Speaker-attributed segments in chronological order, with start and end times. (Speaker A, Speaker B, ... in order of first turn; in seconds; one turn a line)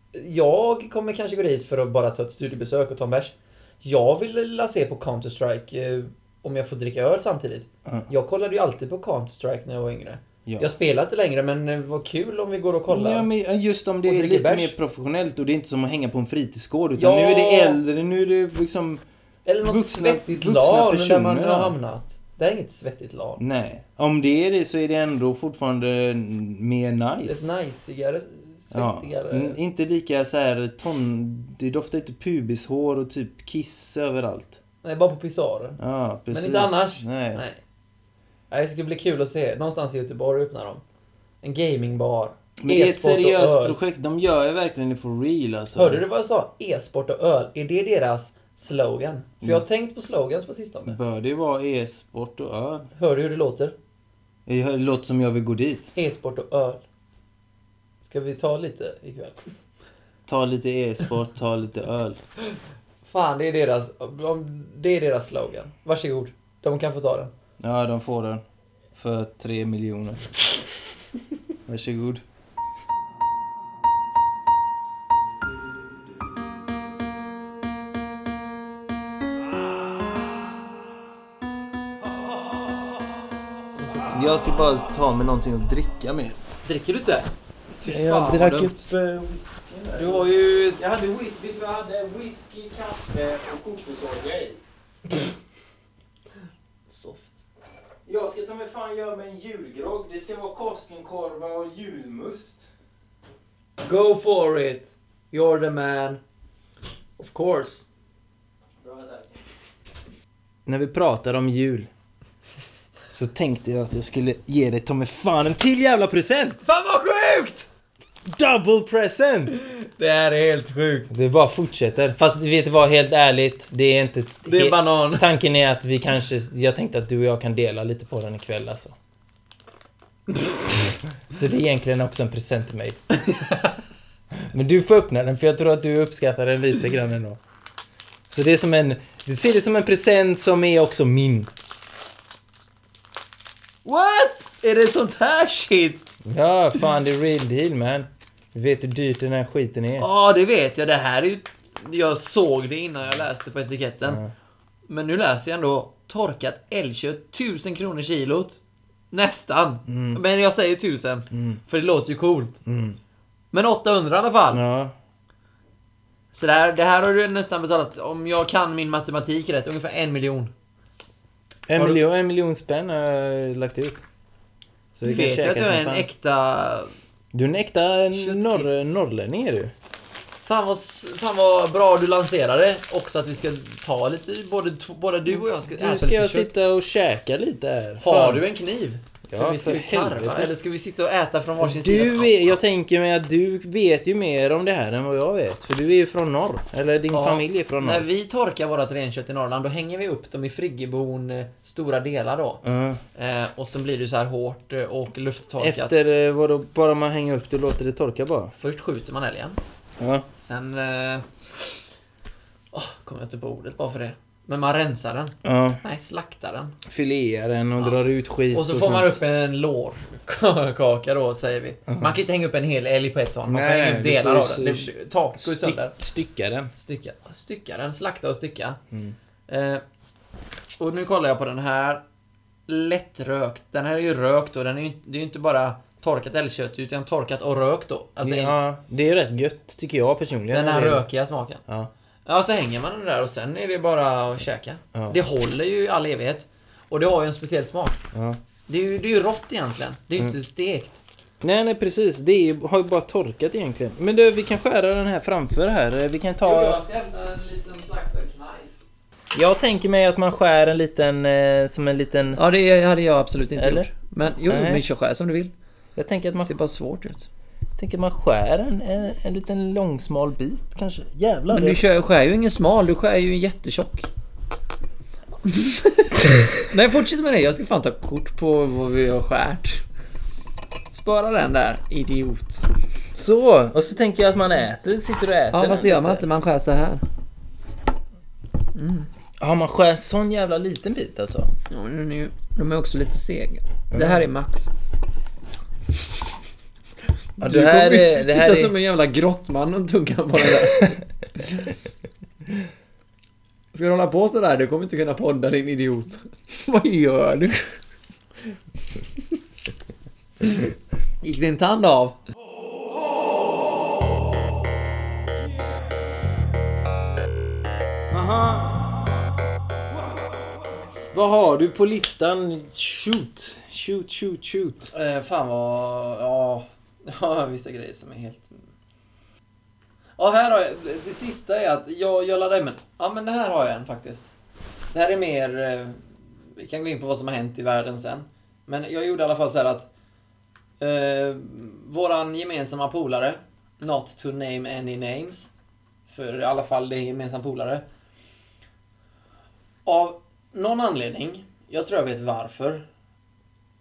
Speaker A: 0.1-13.3
Speaker B: 10.5-10.7
Speaker B: 12.9-19.0
Speaker A: 14.1-14.8
Speaker A: 17.0-17.8
Speaker A: 19.5-23.4
Speaker B: 19.6-21.8
Speaker B: 23.4-27.5
Speaker A: 27.3-29.6
Speaker B: 28.7-34.6
Speaker A: 34.8-35.8
Speaker B: 35.8-37.4
Speaker A: 36.3-37.6
Speaker A: 38.5-40.8
Speaker A: 41.4-43.8
Speaker B: 42.6-46.0
Speaker A: 45.8-51.0
Speaker B: 50.9-52.9
Speaker A: 53.0-53.8
Speaker B: 54.5-55.9
Speaker A: 56.0-56.8
Speaker A: 58.0-59.4
Speaker B: 60.3-62.2
Speaker A: 63.0-67.3
Speaker B: 67.6-68.4
Speaker B: 69.0-70.3
Speaker B: 71.7-72.2
Speaker A: 83.8-84.1
Speaker B: 84.1-86.4
Speaker A: 86.7-88.8
Speaker B: 87.8-94.6
Speaker A: 90.0-90.8
Speaker A: 96.9-97.5
Speaker B: 98.1-102.7
Speaker A: 103.8-106.2
Speaker A: 107.2-107.9
Speaker B: 108.8-109.3
Speaker B: 110.7-111.9
Speaker B: 113.1-116.6
Speaker A: 116.7-117.7
Speaker B: 118.2-119.5
Speaker A: 119.6-121.1
Speaker B: 121.1-129.0
Speaker A: 124.5-125.3
Speaker B: 131.3-133.0
Speaker A: 133.3-133.6
Speaker B: 134.4-137.4
Speaker B: 138.3-141.5
Speaker A: 143.8-146.1
Speaker B: 146.2-150.1
Speaker A: 150.0-154.2
Speaker B: 154.1-154.3
Speaker A: 154.9-158.6
Speaker A: 159.1-162.6
Speaker B: 159.9-160.2
Speaker B: 161.3-161.6
Speaker B: 162.7-163.0
Speaker A: 163.5-164.6
Speaker B: 164.5-164.9
Speaker A: 166.3-170.5
Speaker B: 171.7-174.0
Speaker B: 175.0-176.1
Speaker A: 175.0-176.9
Speaker B: 177.3-179.7
Speaker A: 178.1-178.7
Speaker A: 180.4-186.5
Speaker B: 185.3-188.4
Speaker A: 188.0-192.6
Speaker B: 189.3-190.5
Speaker B: 191.6-198.1
Speaker A: 197.1-202.6
Speaker B: 202.6-203.0
Speaker A: 203.2-205.9
Speaker B: 205.6-208.5
Speaker A: 208.6-209.6
Speaker B: 210.0-210.3
Speaker A: 210.4-211.3
Speaker A: 212.7-216.8
Speaker B: 215.4-215.8
Speaker B: 216.9-219.2
Speaker A: 218.5-225.9
Speaker B: 221.9-222.1
Speaker B: 223.5-226.7
Speaker A: 226.8-228.8
Speaker A: 229.5-229.8
Speaker A: 230.8-232.0
Speaker A: 232.7-238.5
Speaker B: 238.2-241.1
Speaker A: 240.5-241.6
Speaker A: 242.3-248.0
Speaker B: 248.1-248.4
Speaker A: 248.7-251.0
Speaker B: 251.4-256.8
Speaker A: 256.4-258.7
Speaker B: 259.3-262.4
Speaker A: 262.4-265.5
Speaker B: 263.6-263.9
Speaker B: 264.5-264.8
Speaker B: 266.0-266.5
Speaker A: 266.4-267.3
Speaker B: 267.8-271.8
Speaker A: 271.5-274.1
Speaker A: 275.5-279.8
Speaker A: 280.9-282.6
Speaker B: 283.1-286.2
Speaker A: 285.5-287.0
Speaker A: 288.8-289.1
Speaker B: 289.4-291.5
Speaker A: 291.7-294.7
Speaker B: 293.9-294.2
Speaker B: 297.4-298.7
Speaker A: 297.4-301.5
Speaker A: 303.7-307.8
Speaker A: 311.2-312.2
Speaker B: 318.1-319.0
Speaker B: 321.1-324.9
Speaker A: 324.9-328.6
Speaker A: 330.2-334.3
Speaker A: 334.9-339.9
Speaker A: 340.8-345.5
Speaker A: 346.1-347.8
Speaker A: 349.9-352.9